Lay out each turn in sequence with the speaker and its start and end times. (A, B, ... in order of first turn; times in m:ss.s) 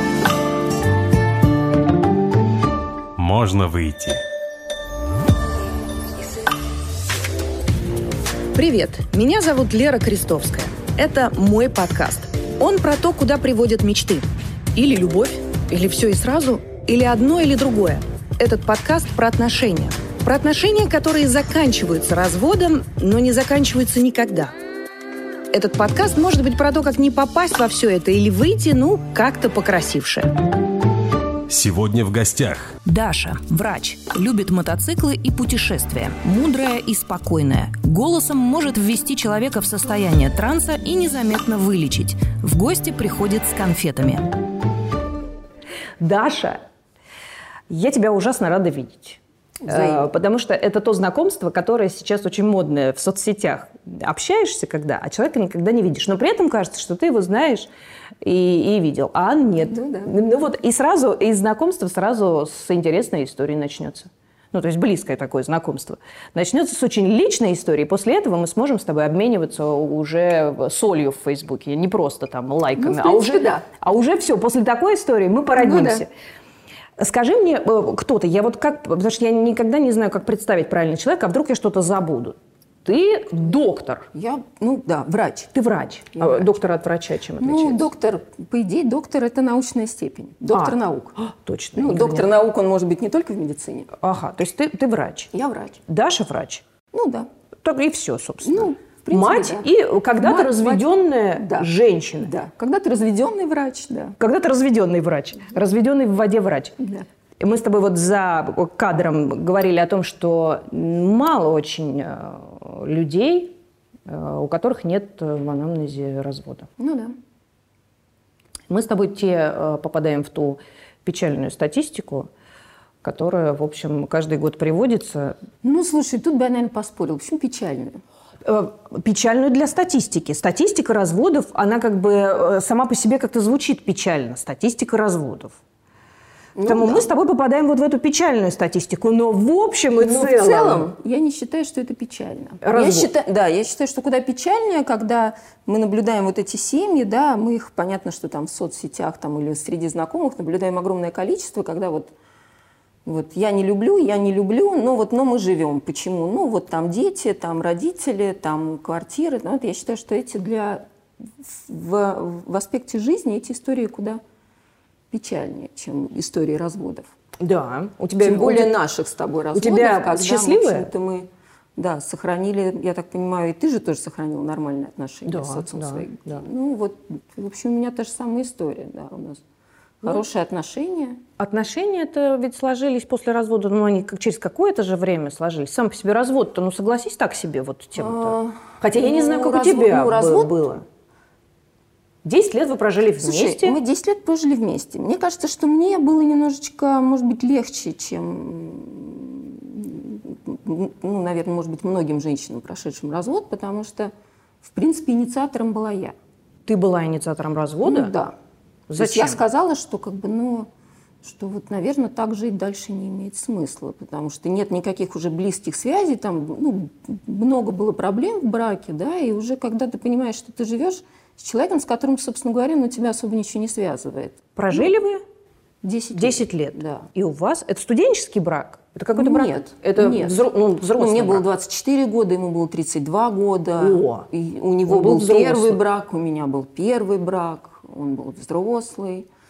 0:03.2-0:04.2 A
0:08.5-0:24.5 B
0:25.5-0:30.3 B
0:31.5-0:32.8 A
0:32.8-0:44.3 B
0:46.0-0:46.6 B
0:47.7-0:57.7 B
0:49.6-0:50.1 C
0:58.2-1:16.1 B
0:59.6-1:00.2 C
1:12.8-1:13.6 C
1:15.6-1:16.1 C
1:17.0-1:24.1 B
1:24.1-1:25.5 C
1:25.5-1:27.9 B
1:26.2-1:26.5 C
1:27.4-1:31.1 C
1:30.5-1:32.3 B
1:31.8-1:33.9 C
1:34.0-1:35.3 B
1:35.3-1:35.8 C
1:35.9-1:36.6 B
1:36.9-1:37.3 C
1:37.6-1:42.3 B
1:38.4-1:44.2 C
1:44.2-1:46.8 B
1:46.8-1:47.1 C
1:47.4-1:53.6 B
1:54.1-1:56.7 B
1:56.8-1:57.2 C
1:58.7-2:02.3 B
2:03.0-2:05.4 B
2:05.6-2:08.0 C
2:08.4-2:15.6 B
2:16.6-2:17.1 C
2:16.7-2:20.9 B
2:20.0-2:32.1 C
2:22.6-2:23.1 B
2:33.0-2:44.2 C
2:45.1-2:47.1 C
2:47.4-2:48.7 B
2:48.2-2:59.4 C
2:49.6-2:50.9 B
2:55.3-2:56.4 B
3:00.0-3:01.2 C
3:01.4-3:10.8 B
3:08.0-3:10.6 C
3:12.2-3:13.8 B
3:13.2-3:26.2 C
3:26.7-3:28.1 B
3:27.8-3:28.4 C
3:28.9-3:29.4 B
3:29.0-3:30.7 C
3:31.2-3:44.9 C
3:44.6-3:45.2 B
3:45.8-3:47.1 C
3:46.2-3:51.5 B
3:49.1-3:59.3 C
3:53.8-3:54.3 B
3:54.9-3:55.8 B